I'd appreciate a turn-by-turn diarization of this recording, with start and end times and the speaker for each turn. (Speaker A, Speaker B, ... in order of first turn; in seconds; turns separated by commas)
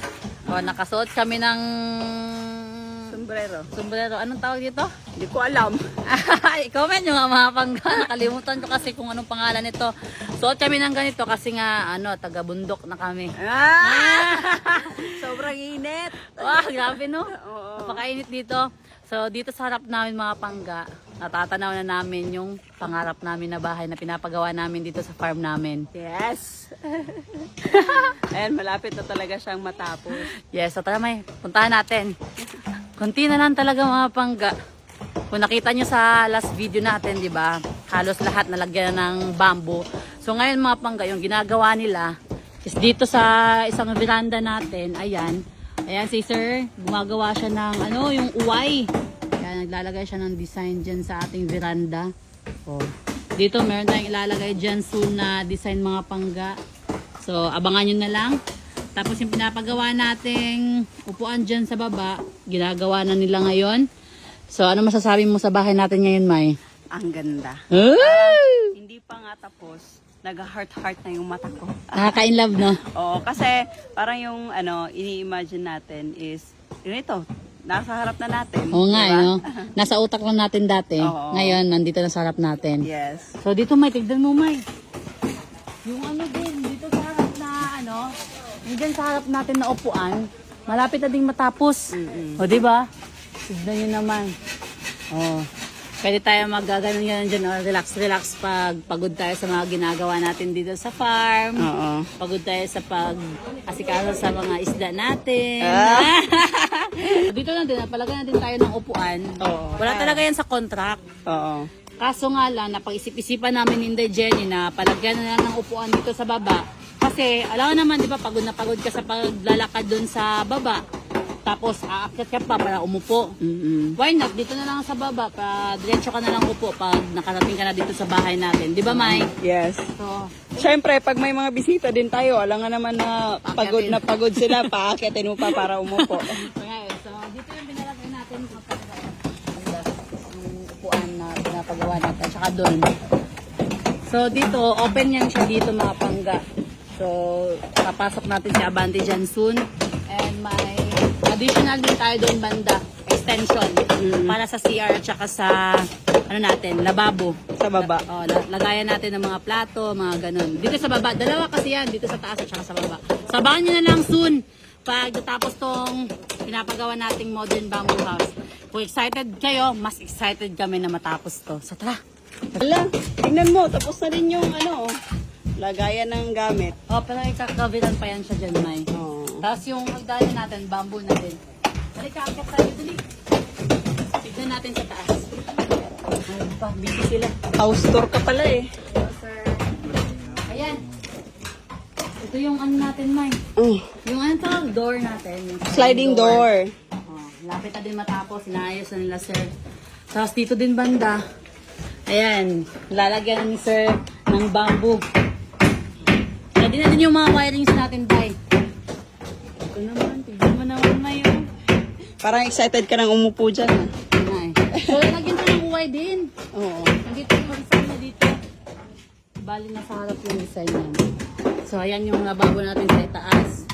Speaker A: 0.5-3.1, Speaker B: 3.1-3.7, Speaker A: 3.7-4.9, Speaker B: 5.2-5.8, Speaker A: 6.1-15.1, Speaker B: 13.4-18.0, Speaker A: 16.4-25.9, Speaker B: 25.9-30.3, Speaker A: 27.7-28.2, Speaker A: 30.5-32.1, Speaker A: 33.0-34.5, Speaker A: 35.3-52.1, Speaker A: 52.7-56.6, Speaker A: 57.2-58.4, Speaker A: 59.0-63.8, Speaker A: 64.5-66.5, Speaker B: 66.9-72.2, Speaker A: 67.7-68.6, Speaker A: 72.0-72.8, Speaker B: 73.0-79.4, Speaker A: 78.7-82.8, Speaker B: 81.0-81.6, Speaker B: 82.8-83.3, Speaker A: 83.4-84.6, Speaker A: 85.9-88.1, Speaker A: 88.7-91.8, Speaker B: 91.9-92.4, Speaker A: 92.4-92.8, Speaker A: 93.5-94.3, Speaker B: 95.1-95.5, Speaker A: 96.0-101.7, Speaker B: 101.6-102.1, Speaker A: 102.2-111.0, Speaker B: 105.6-106.1, Speaker B: 109.4-110.2, Speaker B: 111.3-111.7, Speaker A: 112.0-120.8, Speaker A: 121.5-123.3, Speaker B: 123.4-124.0, Speaker A: 124.0-129.3, Speaker B: 128.9-129.9, Speaker A: 130.0-130.6, Speaker B: 130.6-136.4, Speaker A: 133.4-134.5, Speaker A: 136.0-142.9, Speaker A: 144.1-146.4, Speaker A: 147.0-172.0, Speaker B: 154.0-154.4, Speaker B: 157.6-158.1, Speaker B: 172.6-174.9, Speaker B: 175.6-176.8, Speaker A: 176.9-178.9, Speaker B: 178.9-179.4, Speaker A: 179.4-181.4, Speaker A: 182.0-183.0, Speaker A: 184.2-185.3, Speaker A: 186.3-187.3, Speaker B: 187.6-188.7, Speaker A: 189.0-189.5, Speaker A: 190.4-190.8, Speaker A: 192.2-193.4, Speaker B: 193.6-193.9, Speaker A: 194.1-196.5, Speaker B: 195.7-196.7, Speaker A: 197.1-199.5, Speaker A: 200.1-201.2, Speaker A: 202.1-205.1, Speaker A: 206.6-208.4, Speaker A: 209.7-211.5, Speaker B: 212.2-213.9, Speaker A: 214.1-216.3, Speaker B: 216.5-216.9, Speaker A: 217.0-218.4, Speaker A: 219.4-221.0, Speaker A: 221.7-223.6